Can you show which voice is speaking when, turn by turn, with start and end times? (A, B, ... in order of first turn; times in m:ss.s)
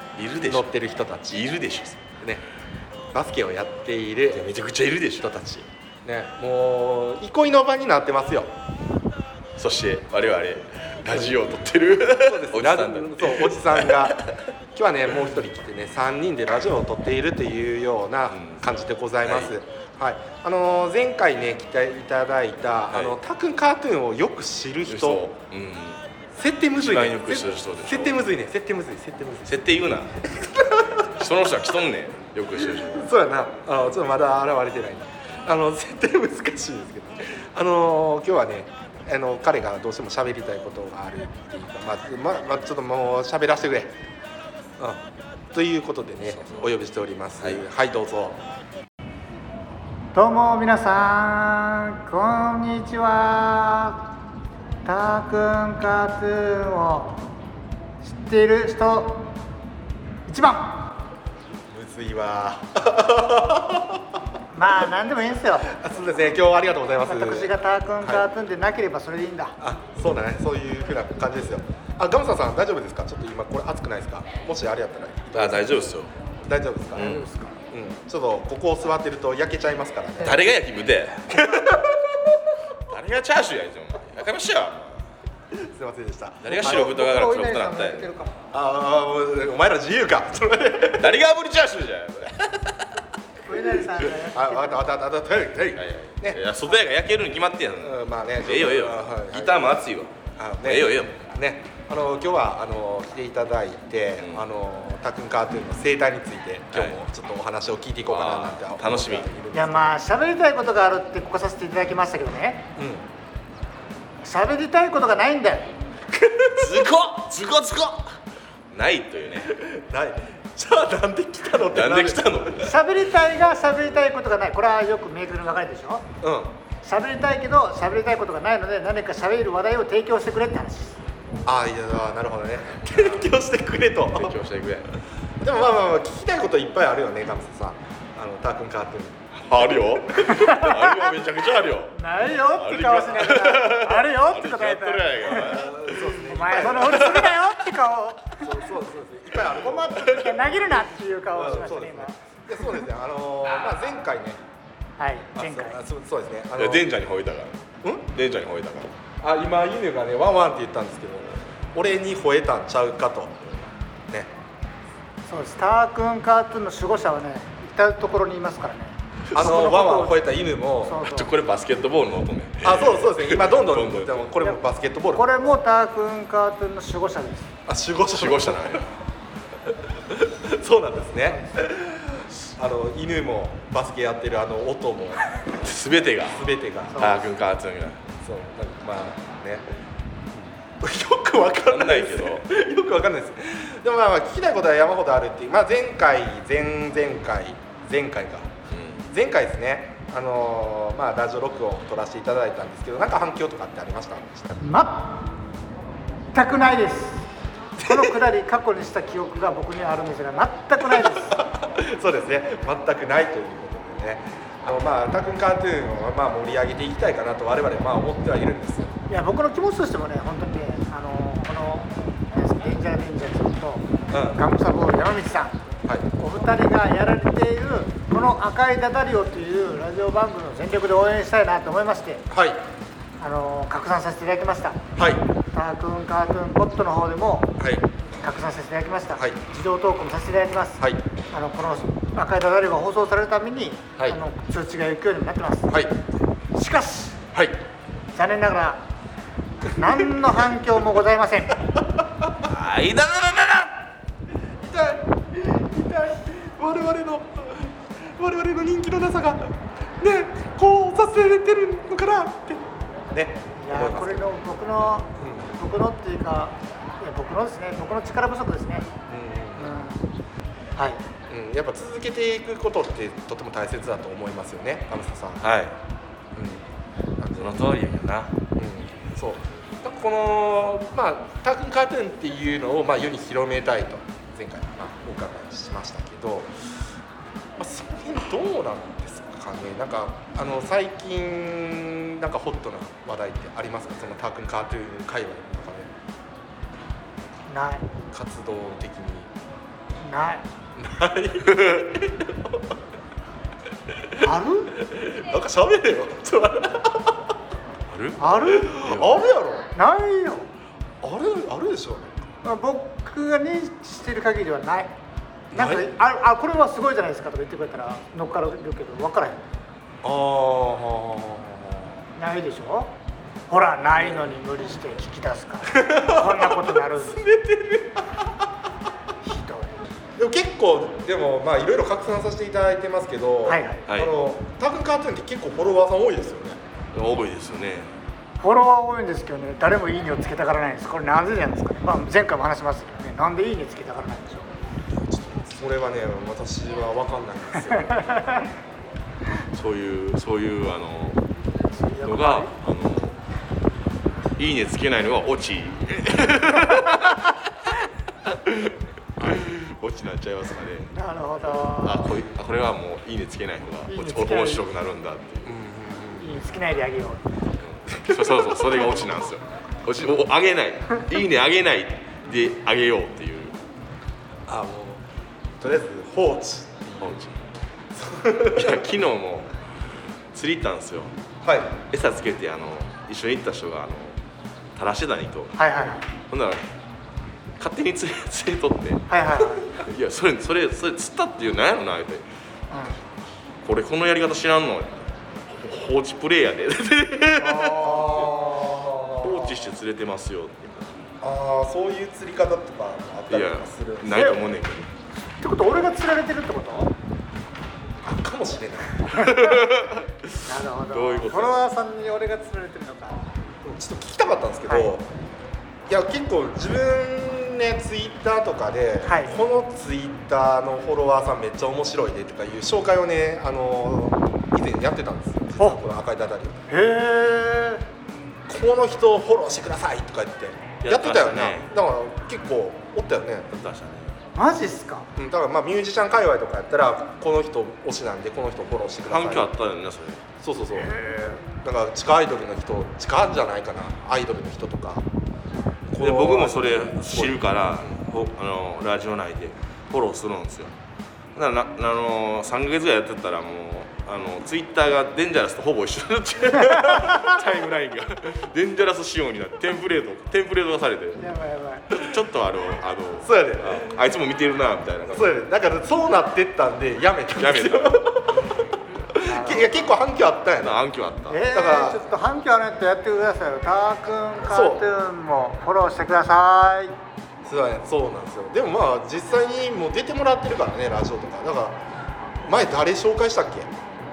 0:00.2-0:00.7 A
0:00.5-0:01.5 B
0:01.3-0:02.1 A
0:03.1-0:04.5 B
0:04.3-0:05.3 A
0:05.2-0:08.5 B
0:09.6-0:14.3 A
0:12.1-0:14.2 B
0:14.8-0:25.2 B
0:18.3-0:19.5 A
0:24.9-0:26.0 A
0:26.3-0:29.7 B
0:26.8-0:28.2 A
0:29.4-0:30.3 A
0:30.3-0:31.1 B
0:30.9-0:33.1 A
0:32.7-0:44.0 B
0:45.5-0:48.4 B
0:46.3-0:46.7 A
0:50.1-0:54.1 C
0:54.8-0:57.3 C
0:58.0-0:59.4 C
1:00.3-1:01.0 C
1:01.7-1:04.2 B
1:04.5-1:05.7 C
1:05.7-1:08.2 B
1:07.1-1:09.6 C
1:09.6-1:15.8 B
1:15.3-1:16.1 A
1:16.4-1:20.4 B
1:16.9-1:17.4 A
1:20.2-1:21.8 A
1:21.4-1:22.4 B
1:22.8-1:25.1 A
1:25.5-1:26.9 B
1:26.4-1:28.1 A
1:26.6-1:28.3 C
1:28.5-1:31.2 B
1:30.9-1:32.9 A
1:33.5-1:34.8 C
1:34.3-1:36.7 B
1:35.8-1:41.2 A
1:37.8-1:39.8 B
1:40.4-1:49.9 B
1:46.7-1:47.0 A
1:48.1-1:49.3 A
1:49.5-1:52.7 C
1:52.8-1:53.0 B
1:54.2-1:55.7 C
1:56.2-1:56.8 B
1:56.5-1:58.2 A
1:58.7-1:59.5 A
1:59.4-2:02.6 B
2:01.6-2:02.7 A
2:02.6-2:06.1 C
2:06.2-2:06.6 B
2:06.8-2:11.0 C
2:11.4-2:14.4 B
2:12.9-2:13.2 A
2:14.1-2:14.9 A
2:15.4-2:19.2 B
2:19.4-2:26.2 A
2:20.2-2:21.1 C
2:21.9-2:28.5 C
2:25.2-2:27.2 B
2:26.7-2:27.3 A
2:28.4-2:30.3 B
2:29.5-2:32.2 C
2:31.3-2:34.4 B
2:35.0-2:35.8 C
2:35.3-2:36.9 B
2:36.6-2:38.9 A
2:39.2-2:43.4 B
2:45.3-2:50.2 C
2:49.3-2:51.0 B
2:50.8-2:51.3 C
2:51.0-2:54.4 A
2:52.6-2:55.3 B
2:55.1-2:57.5 C
2:57.7-2:58.8 B
2:58.1-2:58.9 A
2:59.9-3:05.2 B
3:05.5-3:08.0 A
3:06.2-3:07.2 B
3:06.9-3:07.2 C
3:08.2-3:09.7 B
3:10.8-3:18.5 B
3:11.6-3:12.4 A
3:18.7-3:19.1 A
3:19.1-3:24.6 B
3:24.6-3:25.2 C
3:26.3-3:27.3 C
3:27.8-3:28.2 B
3:27.8-3:31.4 C
3:30.9-3:38.9 B
3:39.1-3:45.6 C
3:44.1-3:44.4 B
3:46.2-3:52.2 C
3:52.3-3:52.6 B
3:53.2-3:54.9 C
3:55.0-3:55.2 B
3:55.5-3:57.6 C
3:57.6-3:57.9 B
3:58.2-4:05.8 C
4:05.7-4:05.9 B
4:06.5-4:07.2 C
4:08.1-4:08.8 C
4:09.6-4:11.6 C
4:12.4-4:13.8 A
4:14.6-4:24.2 B
4:23.6-4:28.9 C
4:25.2-4:25.6 B
4:29.1-4:29.8 B
4:29.6-4:30.0 C
4:30.8-4:31.0 C
4:31.3-4:35.4 B
4:35.4-4:35.8 A
4:36.4-4:36.6 B
4:37.2-4:37.5 B
4:37.3-4:38.4 A
4:38.6-4:46.8 B
4:47.6-4:55.9 B
4:57.5-4:57.8 C
4:58.1-4:59.3 B
5:00.0-5:00.4 C
5:00.8-5:02.6 B
5:04.2-5:04.7 C
5:04.9-5:07.2 B
5:07.9-5:09.2 A
5:08.2-5:08.8 C
5:08.5-5:09.7 B
5:09.7-5:10.5 C
5:11.0-5:12.2 B
5:12.4-5:14.9 C
5:15.5-5:15.9 B
5:15.5-5:19.6 C
5:20.0-5:21.9 B
5:22.2-5:22.9 C
5:23.5-5:27.2 C
5:25.7-5:28.5 B
5:29.2-5:29.8 C
5:30.2-5:36.6 B
5:33.4-5:33.9 C
5:33.9-5:34.1 A
5:36.9-5:37.9 A
5:38.4-5:44.5 C
5:44.9-5:48.0 B
5:47.7-5:48.5 C
5:49.5-5:51.2 A
5:51.8-5:52.5 C
5:52.0-5:53.2 A
5:54.4-5:57.4 A
5:58.2-6:00.9 A
6:00.9-6:02.1 C
6:01.7-6:05.6 A
6:03.9-6:04.6 C
6:05.4-6:06.3 B
6:06.2-6:07.2 C
6:07.6-6:13.6 A
6:07.9-6:09.0 B
6:14.5-6:15.0 B
6:15.6-6:17.2 B
6:17.0-6:17.4 A
6:17.9-6:18.9 B
6:18.6-6:19.6 A
6:20.3-6:21.1 A
6:21.4-6:21.8 B
6:21.9-6:24.2 A
6:24.8-6:25.6 A
6:25.6-6:26.0 C
6:26.3-6:26.6 A
6:27.6-6:29.1 A
6:29.1-6:29.7 C
6:29.7-6:32.2 A
6:32.7-6:33.0 C
6:33.6-6:38.4 A
6:37.4-6:39.7 B
6:37.6-6:38.2 C
6:39.2-6:40.9 A
6:41.2-6:44.3 B
6:43.3-6:44.9 A
6:44.1-6:44.5 C
6:45.2-6:46.9 C
6:48.0-6:49.4 B
6:49.1-6:51.6 A
6:49.1-6:49.5 C
6:50.4-6:53.2 C
6:53.6-6:55.1 B
6:55.9-7:06.6 B
6:59.0-6:59.3 C
7:06.7-7:07.8 C
7:08.5-7:13.5 B
7:10.8-7:11.7 A
7:13.5-7:14.2 A
7:14.4-7:15.1 C
7:15.2-7:19.5 B
7:19.1-7:20.2 A
7:20.4-7:25.1 B
7:20.8-7:21.4 C
7:25.9-7:27.4 B
7:26.0-7:30.7 A
7:31.4-7:41.2 A
7:41.2-7:41.9 C
7:41.9-7:45.3 A
7:43.2-7:43.9 B
7:45.1-7:48.6 B
7:47.4-7:48.4 A
7:49.2-7:49.8 C
7:49.3-7:50.8 B
7:50.6-7:51.4 A
7:51.3-7:57.0 C
7:51.4-7:52.1 B
7:54.4-7:54.8 B
7:57.4-8:01.8 B
8:02.4-8:03.7 B